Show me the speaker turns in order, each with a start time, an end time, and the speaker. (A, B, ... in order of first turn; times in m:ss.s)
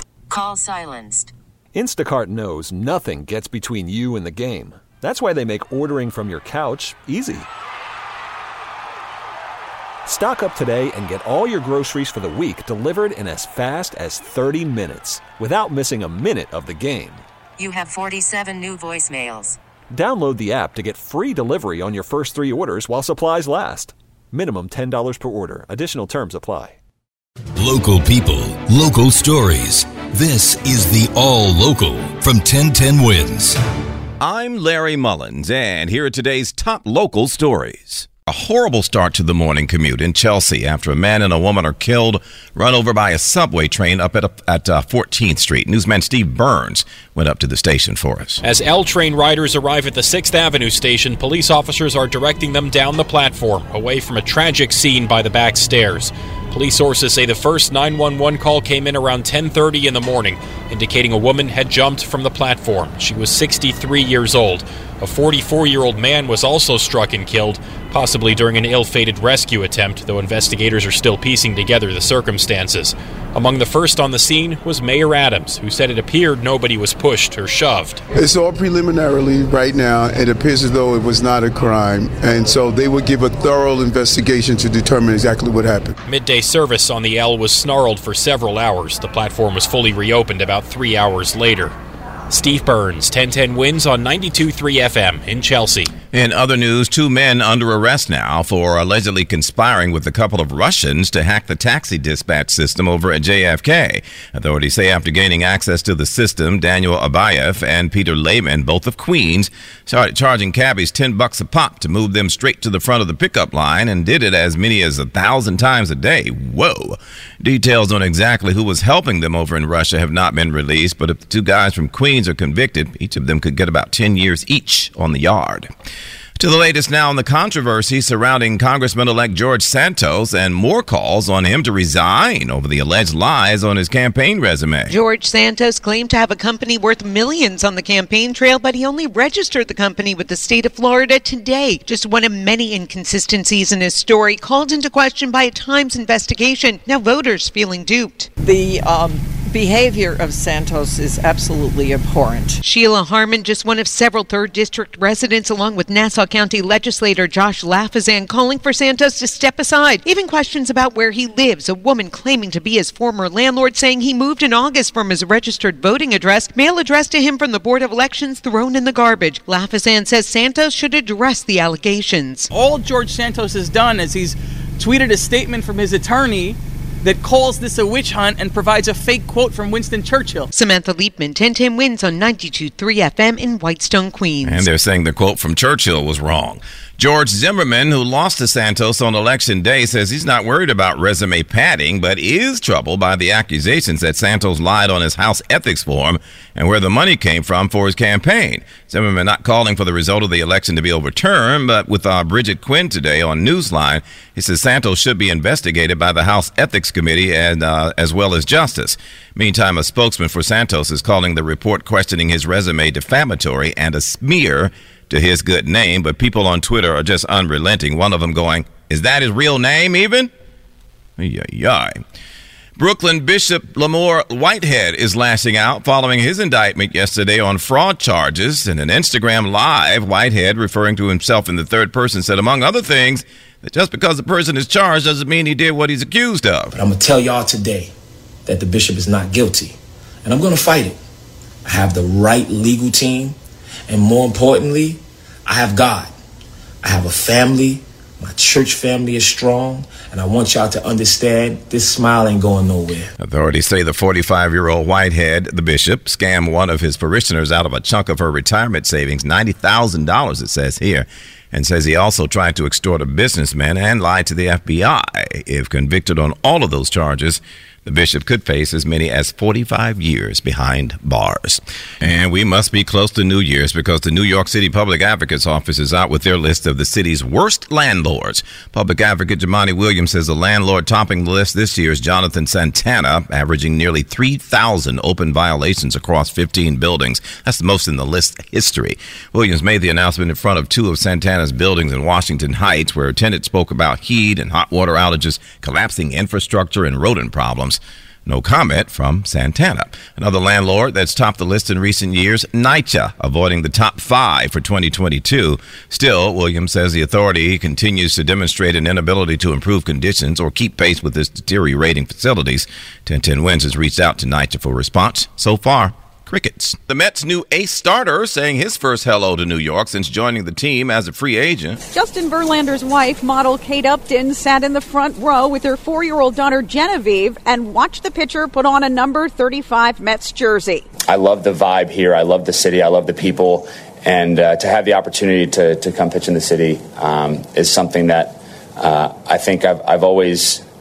0:00.3-0:01.3 A
0:01.7-0:07.5 B
0:10.1-0:17.2 B
0:17.6-0:19.6 A
0:19.9-0:26.8 B
0:27.6-0:33.6 C
0:34.2-0:48.4 D
0:48.4-1:18.0 E
1:18.1-1:26.0 F
1:26.1-1:31.7 E
1:32.3-1:35.9 E
1:36.1-2:05.7 D
2:06.4-2:14.9 D
2:14.9-2:28.3 G
2:28.4-2:32.5 H
2:32.6-2:52.5 G
2:52.5-3:00.5 I
3:00.5-3:04.7 G
3:04.4-3:40.3 D
3:41.2-3:42.0 D
3:42.8-3:56.8 D
3:56.7-3:57.9 J
3:58.5-4:01.0 J
4:01.6-4:03.4 J
4:03.9-4:06.1 J
4:06.8-4:13.1 J
4:13.2-5:21.8 D
5:21.9-5:30.8 K
5:31.1-5:40.6 L